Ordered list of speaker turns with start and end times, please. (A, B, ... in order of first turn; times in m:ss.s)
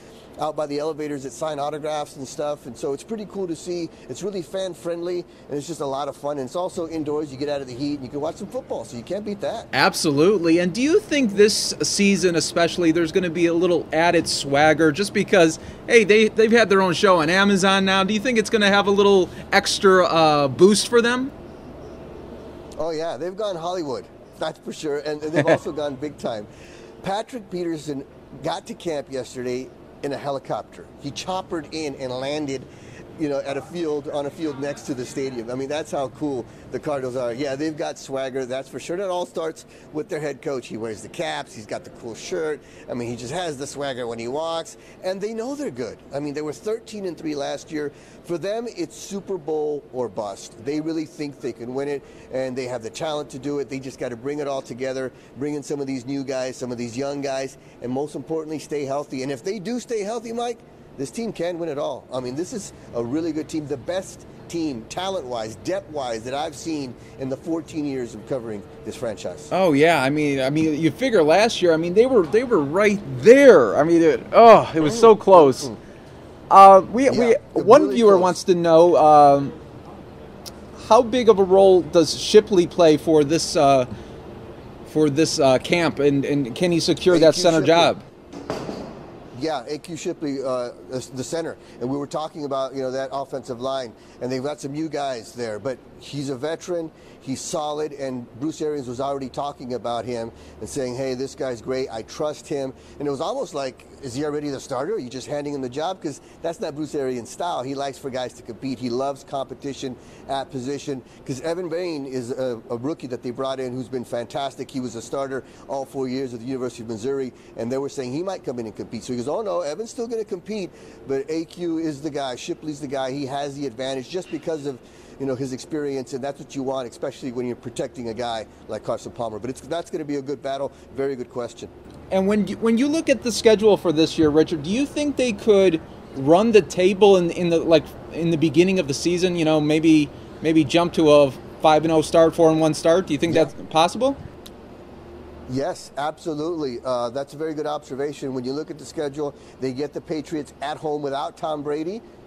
0:00.4-0:09.7 A
0:09.7-0:21.3 B
0:22.8-0:26.5 A
0:27.0-1:09.5 A
1:09.5-1:15.7 B
1:14.8-1:15.8 A
1:16.5-1:19.5 B
1:17.1-1:18.3 A
1:20.7-1:23.9 B
1:24.9-1:28.0 B
1:27.1-1:27.9 A
1:29.3-2:11.7 A
2:12.1-2:24.2 B
2:25.5-2:32.0 A